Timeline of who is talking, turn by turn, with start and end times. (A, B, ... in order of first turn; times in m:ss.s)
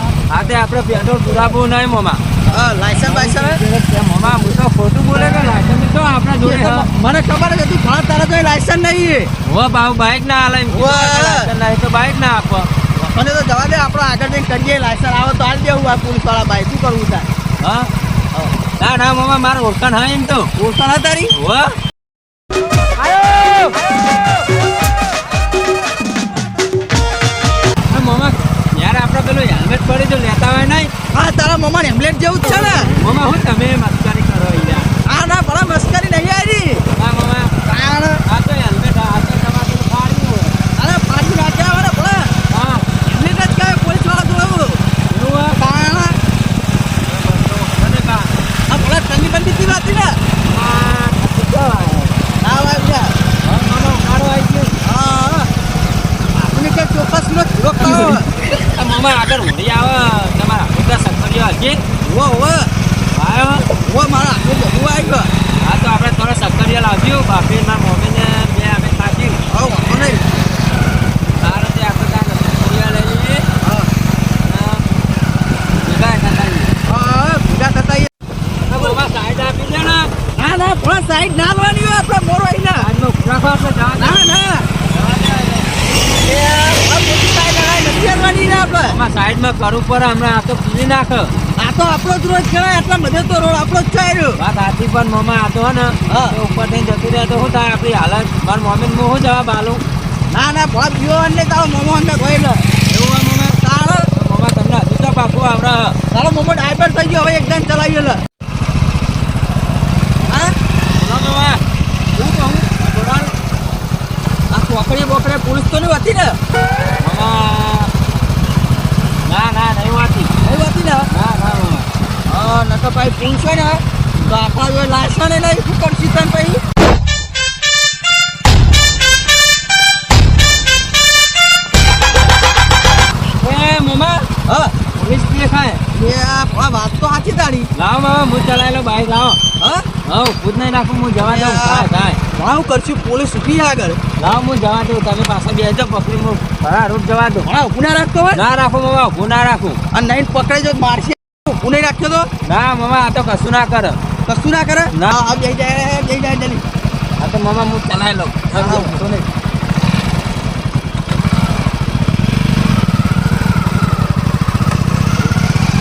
0:00.3-0:02.2 A
0:02.5-0:03.6 B
0:02.9-0:06.8 A
0:06.4-0:09.3 B
0:09.4-0:12.7 A
0:10.7-0:11.5 B
0:13.0-0:17.3 B
0:17.6-0:17.9 A
0:18.8-0:20.5 A
0:20.6-0:21.3 B
0:21.3-0:21.7 A
0:27.9-0:30.9 A
0:31.1-0:32.9 B
0:33.0-0:34.9 A
0:35.0-0:36.8 B
0:36.9-0:37.5 A
0:37.7-0:38.2 B
0:38.3-0:40.6 A
0:40.8-0:42.3 B
0:42.5-0:42.9 A
0:43.1-0:44.8 B
0:45.1-0:45.6 A
0:45.6-0:46.2 B
0:47.1-0:48.3 A
0:48.7-0:50.1 B
0:50.5-0:52.1 A
0:52.4-0:53.1 B
0:53.4-0:54.7 A
0:54.8-0:55.5 B
0:56.3-0:58.3 B
0:57.8-1:01.8 A
1:02.0-1:02.7 B
1:03.1-1:03.6 A
1:03.8-1:05.3 B
1:05.6-1:09.4 A
1:09.5-1:10.2 B
1:11.4-1:13.4 A
1:13.6-1:13.9 B
1:14.4-1:14.8 A
1:15.8-1:16.7 A
1:16.9-1:18.1 B
1:18.7-1:20.1 A
1:18.7-1:19.0 B
1:20.4-1:22.9 B
1:22.8-1:24.2 A
1:24.0-1:24.7 B
1:24.9-1:25.7 A
1:26.2-1:29.0 B
1:28.9-1:31.3 A
1:31.6-1:34.4 B
1:34.4-1:39.8 A
1:36.1-1:36.4 B
1:40.3-1:42.7 B
1:42.9-1:43.6 A
1:43.6-1:44.0 B
1:44.1-1:46.0 A
1:46.1-1:48.2 B
1:50.2-1:50.5 B
1:51.0-1:51.6 A
1:52.2-1:52.6 B
1:52.6-1:53.3 A
1:54.5-1:56.4 B
1:57.0-1:57.9 A
1:59.3-2:00.3 A
2:00.4-2:01.1 B
2:01.1-2:01.9 A
2:02.3-2:06.6 B
2:13.4-2:14.3 A
2:14.5-2:14.7 B
2:15.0-2:15.8 A
2:15.9-2:17.7 B
2:17.8-2:19.4 A
2:19.6-2:19.8 B
2:20.1-2:22.2 A
2:21.2-2:24.0 B
2:24.2-2:27.4 A
2:27.4-2:28.4 B
2:28.4-2:29.8 A
2:29.9-2:32.3 B
2:32.5-2:34.0 A
2:34.3-2:36.6 B
2:37.2-2:39.0 A
2:38.6-2:39.3 B